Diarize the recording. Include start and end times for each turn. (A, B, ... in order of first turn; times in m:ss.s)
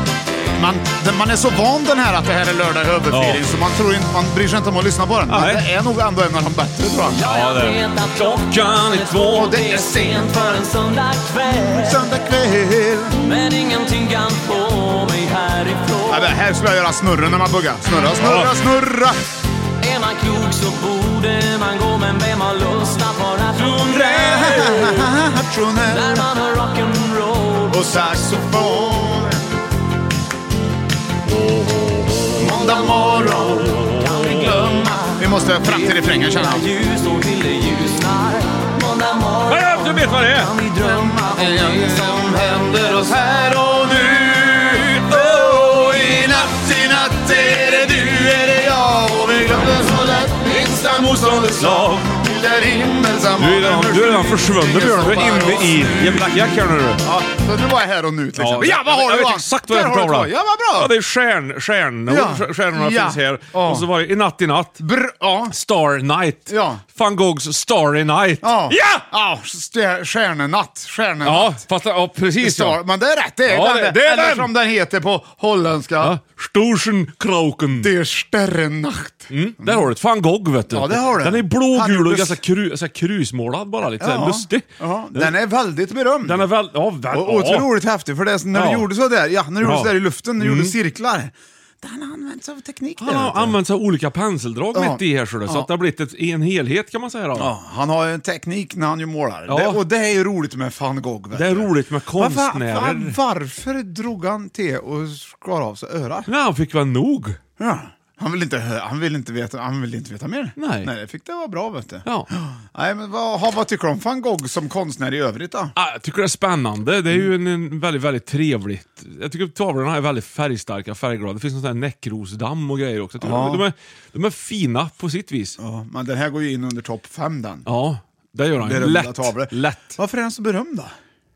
0:00.5-0:07.2 A
0:03.1-0:03.4 B
0:05.3-0:05.6 B
0:07.1-0:12.0 C
0:07.2-0:09.8 B
0:09.3-0:10.6 A
0:11.7-0:13.2 A
0:13.2-0:16.3 C
0:16.1-0:19.2 A
0:18.2-0:18.5 B
0:19.8-0:24.6 C
0:23.8-0:26.3 A
0:24.2-0:25.0 B
0:25.9-0:28.1 C
0:27.7-0:29.4 A
0:31.4-0:32.3 B
0:32.4-0:36.7 A
0:32.4-0:42.4 C
0:39.5-0:40.5 B
0:40.8-0:56.3 A
0:45.1-0:45.6 B
0:51.4-0:52.1 B
0:53.4-0:57.0 B
0:57.0-1:00.9 A
0:58.4-1:04.8 B
1:02.1-1:03.9 A
1:04.8-1:05.6 A
1:05.5-1:09.0 B
1:06.5-1:06.8 A
1:08.4-1:11.7 A
1:11.2-1:12.8 B
1:12.4-1:16.2 A
1:13.5-1:14.5 B
1:16.0-1:17.9 B
1:17.8-1:19.9 A
1:19.3-1:25.3 B
1:20.7-1:22.4 A
1:24.0-1:26.5 A
1:26.2-1:27.7 B
1:27.1-1:33.6 A
1:28.5-1:28.9 B
1:29.6-1:30.8 B
1:33.0-1:37.5 B
1:34.7-1:35.7 A
1:37.4-1:46.3 A
1:39.5-1:39.8 B
1:41.3-1:43.2 B
1:46.3-1:47.4 B
1:47.6-1:55.8 A
1:50.6-1:50.9 B
1:55.8-2:05.6 B
2:03.2-2:03.7 A
2:05.6-2:07.7 A
2:07.7-2:10.0 B
2:08.6-2:11.0 A